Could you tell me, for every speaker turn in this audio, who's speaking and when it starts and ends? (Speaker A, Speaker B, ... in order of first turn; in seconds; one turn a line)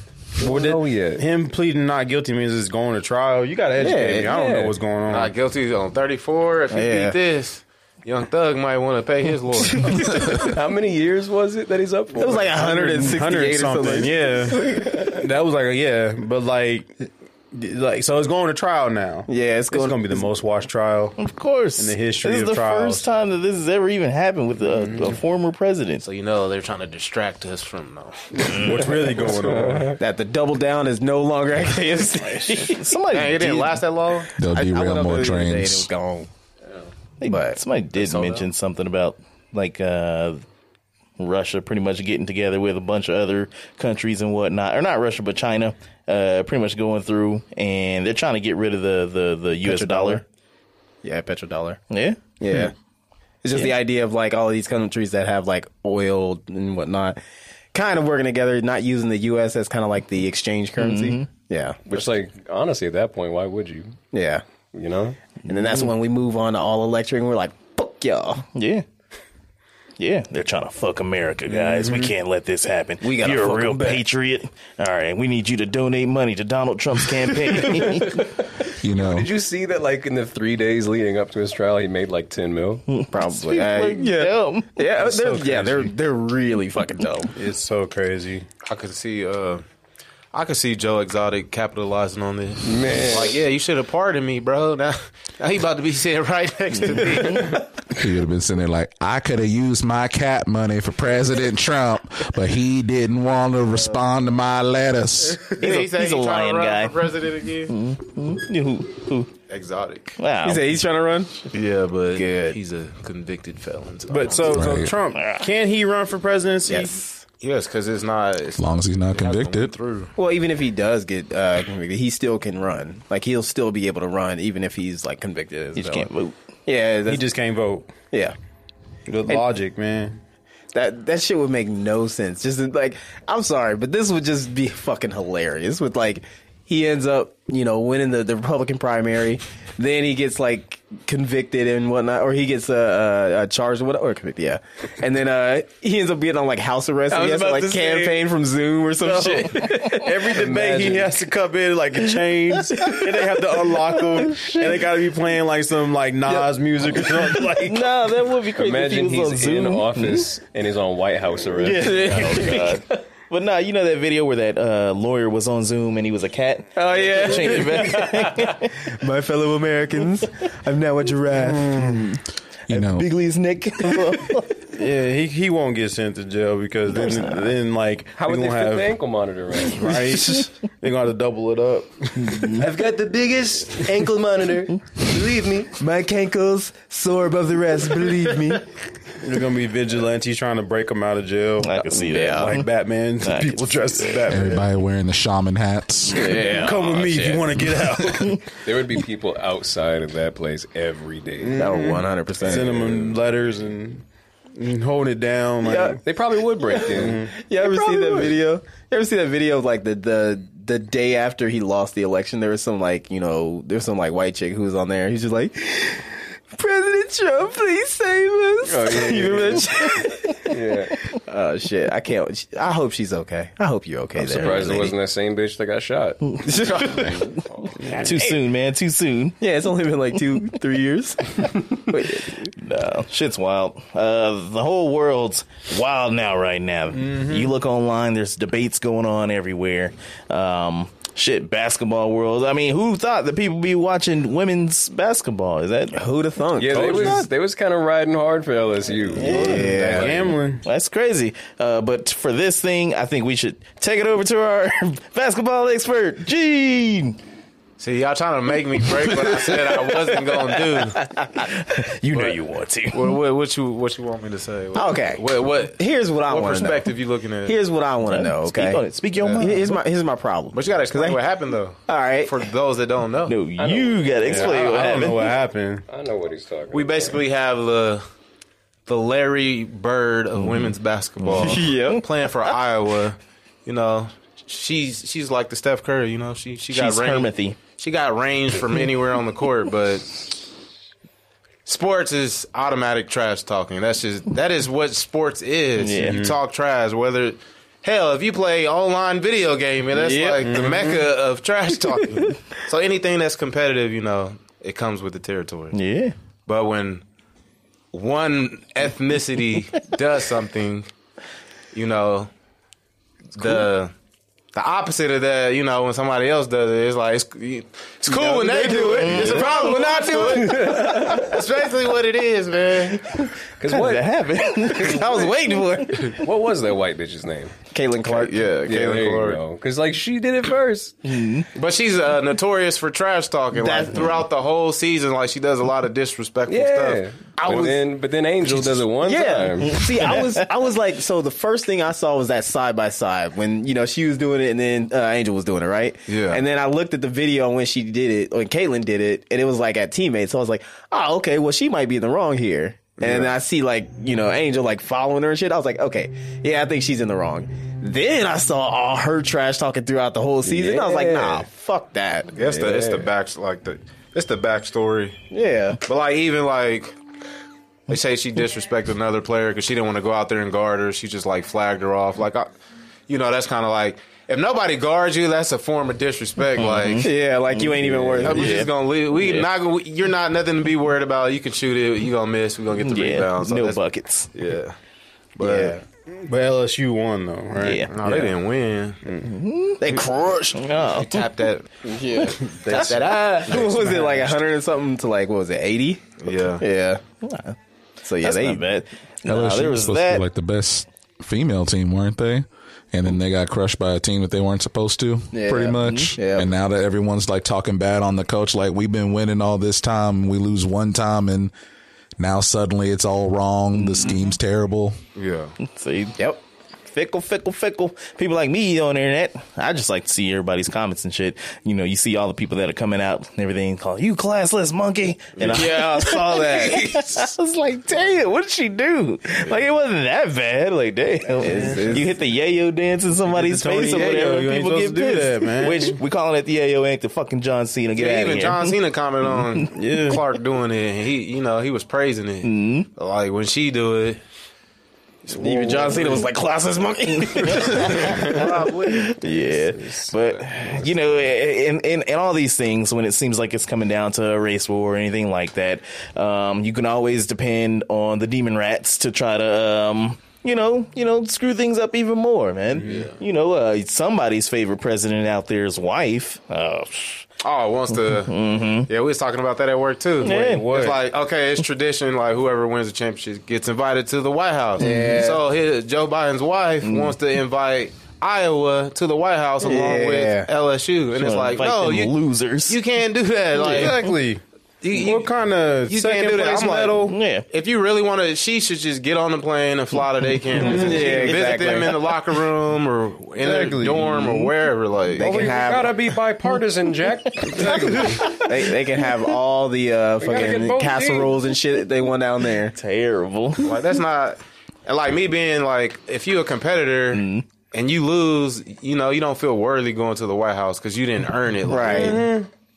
Speaker A: 0.4-1.2
Speaker B: 0.4-5.3
Speaker C: 3.8-4.3
Speaker A: 3.9-4.7
Speaker D: 5.1-10.4
Speaker C: 6.7-7.2
Speaker A: 9.8-12.5
Speaker C: 12.1-14.2
Speaker B: 12.4-16.9
Speaker A: 14.7-15.1
Speaker B: 17.5-21.1
Speaker C: 19.3-20.3
Speaker E: 21.2-26.0
Speaker B: 21.8-23.1
Speaker B: 24.7-25.2
Speaker D: 26.0-28.6
Speaker B: 28.4-30.0
Speaker A: 29.2-30.0
Speaker C: 30.0-32.8
Speaker E: 32.5-33.8
Speaker D: 33.1-34.3
Speaker F: 34.4-35.9
Speaker C: 34.4-36.3
Speaker E: 37.2-40.4
Speaker C: 37.2-37.6
Speaker D: 38.0-38.4
Speaker E: 41.2-50.2
Speaker C: 49.6-50.2
Speaker C: 51.0-51.8
Speaker E: 51.9-52.6
Speaker C: 52.4-52.7
Speaker C: 53.4-57.2
Speaker C: 57.7-62.0
Speaker E: 60.8-61.2
Speaker A: 61.9-64.0
Speaker C: 64.1-64.4
Speaker A: 64.7-65.2
Speaker C: 65.4-68.4
Speaker E: 68.5-68.8
Speaker E: 70.0-78.2
Speaker B: 71.5-72.1
Speaker C: 73.0-74.0
Speaker A: 77.6-82.8
Speaker F: 78.8-79.3
Speaker E: 82.9-84.7
Speaker C: 83.1-87.3
Speaker B: 84.9-85.9
Speaker B: 87.3-88.5
Speaker D: 88.6-89.6
Speaker D: 90.3-97.7
Speaker A: 92.6-93.4
Speaker F: 97.9-105.5
Speaker D: 105.4-107.7
Speaker E: 105.6-107.0
Speaker E: 107.7-109.3
Speaker D: 109.5-110.2
Speaker E: 110.2-110.8
Speaker C: 110.4-111.5
Speaker D: 111.5-114.6
Speaker C: 112.1-112.6
Speaker B: 114.1-117.0
Speaker F: 114.5-114.9
Speaker E: 115.1-115.5
Speaker C: 116.7-117.2
Speaker D: 117.4-120.1
Speaker F: 118.6-119.7
Speaker C: 120.2-126.1
Speaker E: 125.7-126.3
Speaker C: 126.7-127.3
Speaker B: 127.1-127.9
Speaker B: 129.1-130.2
Speaker C: 130.7-149.9
Speaker A: 147.1-148.2
Speaker A: 149.1-151.1
Speaker B: 149.2-157.9
Speaker E: 152.7-154.8
Speaker E: 157.0-160.2
Speaker A: 158.6-162.8
Speaker E: 161.6-168.7
Speaker C: 166.8-172.2
Speaker B: 171.5-172.0
Speaker F: 172.7-173.1
Speaker E: 172.7-174.5
Speaker C: 173.5-174.4
Speaker B: 174.7-178.9
Speaker A: 178.2-180.4
Speaker B: 179.6-182.7
Speaker E: 182.2-182.6
Speaker A: 182.6-185.8
Speaker C: 185.8-188.6
Speaker B: 189.2-194.7
Speaker E: 191.6-192.7
Speaker C: 192.0-192.6
Speaker E: 193.2-194.2
Speaker F: 194.3-196.3
Speaker A: 196.1-197.4
Speaker B: 196.4-198.4
Speaker A: 198.6-201.6
Speaker B: 201.4-204.0
Speaker C: 201.6-203.1
Speaker B: 204.5-206.0
Speaker C: 205.6-206.0
Speaker A: 206.0-207.2
Speaker C: 206.5-220.6
Speaker B: 206.8-207.3
Speaker A: 218.6-221.0
Speaker C: 221.1-224.9
Speaker A: 224.2-227.7
Speaker C: 226.4-227.4
Speaker B: 227.8-228.2
Speaker C: 227.9-228.3
Speaker E: 227.9-229.4
Speaker C: 229.4-232.5
Speaker E: 232.5-246.0
Speaker B: 236.9-237.5
Speaker C: 245.9-247.3
Speaker A: 246.6-250.0
Speaker E: 246.8-247.1
Speaker E: 249.1-249.8
Speaker C: 249.2-250.3
Speaker B: 249.3-250.6
Speaker E: 250.6-257.2
Speaker D: 257.8-261.0
Speaker E: 259.2-259.9
Speaker E: 260.6-263.1
Speaker D: 262.9-267.6
Speaker C: 264.7-266.9
Speaker C: 267.4-268.8
Speaker E: 268.1-269.8
Speaker D: 269.2-269.4
Speaker C: 269.4-271.2
Speaker D: 270.5-273.4
Speaker C: 271.9-272.4
Speaker E: 273.3-275.3
Speaker A: 273.6-275.1
Speaker B: 274.2-275.9
Speaker A: 275.9-277.2
Speaker D: 276.7-278.0
Speaker D: 278.9-290.3
Speaker E: 281.2-282.0
Speaker E: 286.7-287.6
Speaker D: 291.6-305.7
Speaker E: 295.8-296.2
Speaker B: 296.0-296.4
Speaker E: 300.0-300.4
Speaker B: 300.4-301.0
Speaker E: 305.7-306.1
Speaker D: 306.4-307.0
Speaker D: 307.9-310.9
Speaker D: 311.7-312.3
Speaker D: 313.3-313.9
Speaker D: 314.5-323.2
Speaker C: 318.1-321.1
Speaker E: 318.8-320.0
Speaker A: 320.2-321.2
Speaker A: 323.6-324.1
Speaker E: 323.7-325.1
Speaker A: 324.7-325.3
Speaker C: 324.8-326.2
Speaker A: 326.0-327.5
Speaker C: 327.7-328.5
Speaker D: 328.1-329.4
Speaker A: 328.6-330.9
Speaker E: 331.0-331.5
Speaker D: 331.5-337.8
Speaker C: 333.6-334.0
Speaker A: 336.5-340.2
Speaker C: 337.4-337.8
Speaker C: 338.5-362.4
Speaker D: 346.1-346.4
Speaker D: 353.0-353.3
Speaker A: 360.4-361.5
Speaker D: 362.3-365.2
Speaker A: 362.4-363.1
Speaker C: 365.3-365.8
Speaker D: 365.8-366.9
Speaker D: 367.9-372.5
Speaker D: 373.1-377.1
Speaker E: 376.6-378.7
Speaker C: 377.0-378.6
Speaker D: 378.2-383.8
Speaker E: 382.8-384.3
Speaker D: 384.3-384.8
Speaker D: 385.4-385.8
Speaker C: 385.4-385.8
Speaker B: 386.2-388.3
Speaker E: 387.6-387.9
Speaker D: 387.9-389.0
Speaker E: 389.2-391.3
Speaker C: 389.8-390.6
Speaker D: 390.8-394.3
Speaker C: 391.9-397.0
Speaker D: 396.2-396.6
Speaker E: 397.2-397.6
Speaker C: 398.0-398.6
Speaker E: 398.2-400.2
Speaker F: 399.2-411.5
Speaker C: 405.3-406.5
Speaker F: 412.2-415.0
Speaker E: 413.7-414.2
Speaker D: 415.1-415.5
Speaker E: 415.6-416.2
Speaker E: 416.9-438.8
Speaker D: 425.4-427.2
Speaker C: 425.5-426.8
Speaker C: 431.4-432.1
Speaker B: 431.5-431.8
Speaker B: 433.3-436.0
Speaker D: 433.9-434.2
Speaker D: 437.9-444.2
Speaker B: 439.8-440.2
Speaker E: 442.4-442.9
Speaker D: 445.3-446.3
Speaker C: 445.3-448.9
Speaker E: 447.4-467.3
Speaker D: 447.9-448.8
Speaker D: 462.8-463.1
Speaker D: 467.4-484.1
Speaker E: 468.3-468.9
Speaker E: 470.2-470.7
Speaker B: 470.3-471.0
Speaker E: 474.8-475.1
Speaker C: 474.9-475.2
Speaker E: 476.8-477.1
Speaker C: 479.6-480.5
Speaker E: 481.1-482.8
Speaker B: 483.6-487.1
Speaker D: 484.8-485.3
Speaker D: 485.9-495.5
Speaker E: 487.1-487.4
Speaker E: 490.6-491.8
Speaker C: 490.6-492.0
Speaker B: 490.7-491.1
Speaker B: 493.4-494.3
Speaker C: 495.1-495.9
Speaker A: 495.2-498.4
Speaker E: 497.3-498.5
Speaker C: 497.6-502.8
Speaker A: 500.2-501.4
Speaker E: 502.7-503.8
Speaker D: 503.6-512.3
Speaker E: 507.1-507.4
Speaker C: 511.6-512.2
Speaker B: 512.0-512.5